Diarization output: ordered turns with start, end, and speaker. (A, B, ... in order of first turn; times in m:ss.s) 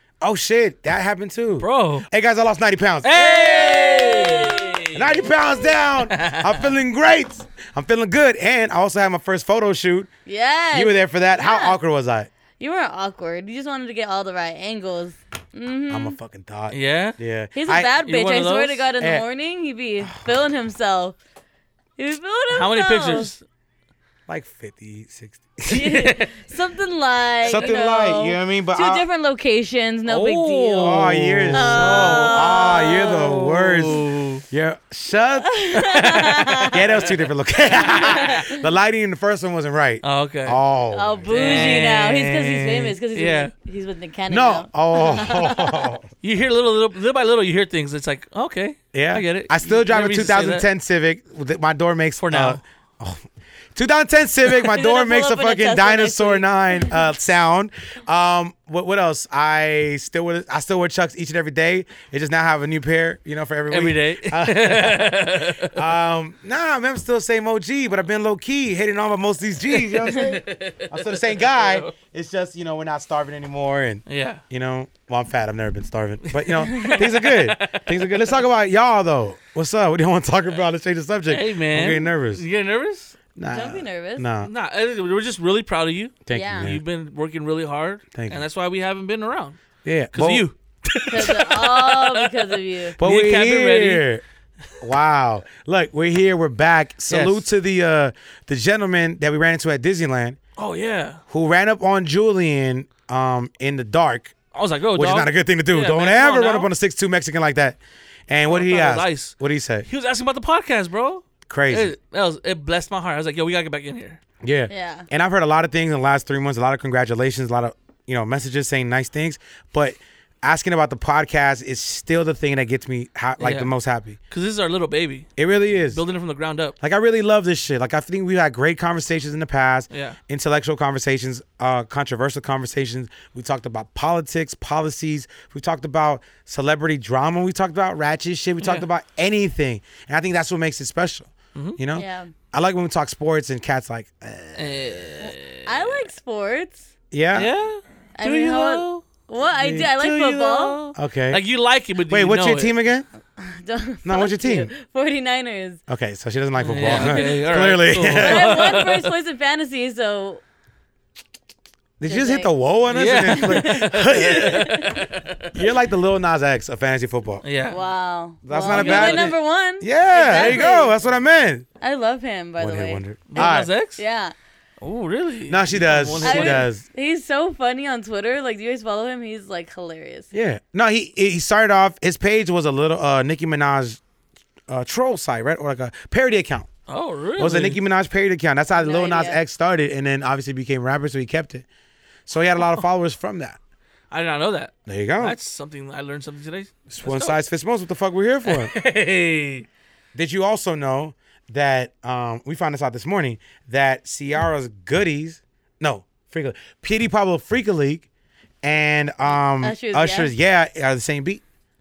0:00.2-0:04.0 A
0:01.6-0:02.1 B
0:03.0-0:05.2 B
0:03.2-0:04.7 C
0:04.9-0:10.1 A
0:06.0-0:06.6 B
0:10.2-0:11.8 C
0:10.7-0:12.3 A
0:12.6-0:16.2 C
0:15.9-0:17.9 A
0:16.7-0:17.2 B
0:17.5-0:21.2 C
0:18.0-0:18.9 B
0:19.0-0:19.2 A
0:20.0-0:20.3 A
0:22.0-0:23.3 C
0:22.5-0:23.4 B
0:24.3-0:26.0 A
0:25.7-0:33.2 C
0:25.7-0:26.3 B
0:27.4-0:29.0 A
0:30.0-0:34.4 B
0:30.8-0:35.6 A
0:35.4-0:36.8 C
0:35.7-0:36.8 B
0:36.7-0:41.6 A
0:37.7-0:38.6 C
0:40.0-0:40.6 B
0:40.9-0:45.9 C
0:41.3-0:43.5 B
0:44.3-0:46.1 A
0:46.2-0:50.6 B
0:48.9-1:22.4 A
0:52.2-0:52.6 B
0:54.6-0:57.0 C
1:03.7-1:05.8 B
1:09.7-1:11.9 B
1:14.1-1:14.4 B
1:16.2-1:18.4 B
1:21.3-1:23.2 B
1:23.4-1:24.5 A
1:23.5-1:24.2 C
1:24.4-1:29.6 B
1:26.2-1:26.8 A
1:26.3-1:26.7 C
1:28.1-1:28.4 A
1:29.8-1:30.5 A
1:30.1-1:34.1 B
1:31.1-1:33.0 C
1:33.0-1:34.2 A
1:34.8-1:40.4 A
1:37.1-1:37.4 B
1:40.6-1:41.2 B
1:41.3-1:44.3 A
1:44.5-1:46.7 B
1:44.9-1:49.9 A
1:48.5-1:54.2 B
1:51.5-1:51.9 A
1:54.4-2:04.2 A
1:54.7-1:55.1 C
2:03.4-2:03.7 B
2:04.3-2:05.3 B
2:05.4-2:06.0 A
2:05.9-2:06.8 B
2:06.8-2:24.8 A
2:09.9-2:10.2 B
2:21.9-2:22.3 C
2:24.6-2:26.1 B
2:25.6-2:26.9 C
2:27.1-2:27.5 A
2:27.3-2:29.0 B
2:28.2-2:30.8 C
2:29.6-2:32.8 B
2:30.9-2:31.4 A
2:32.1-2:33.0 A
2:33.4-2:35.8 C
2:34.0-2:34.7 A
2:35.9-2:38.5 A
2:36.6-2:39.1 B
2:36.8-2:40.4 C
2:42.0-2:44.9 A
2:42.1-2:42.5 C
2:42.9-2:45.5 B
2:43.2-2:45.0 C
2:45.5-2:47.4 A
2:47.4-2:47.8 B
2:47.7-2:51.0 C
2:48.4-2:51.6 A
2:48.7-2:49.4 B
2:50.3-2:50.6 B
2:51.8-2:54.3 C
2:52.6-2:53.7 A
2:53.3-2:54.0 B
2:54.8-2:56.7 B
2:55.5-2:56.8 A
2:56.2-3:00.3 C
3:00.3-3:04.0 A
3:04.7-3:06.7 A
3:06.9-3:07.8 B
3:07.4-3:11.6 A
3:08.7-3:09.4 C
3:12.3-3:13.6 A
3:14.1-3:17.4 B
3:14.8-3:15.3 A
3:16.9-3:18.7 A
3:18.4-3:19.6 B
3:20.1-3:28.0 A
3:28.6-3:31.4 A
3:29.6-3:30.3 C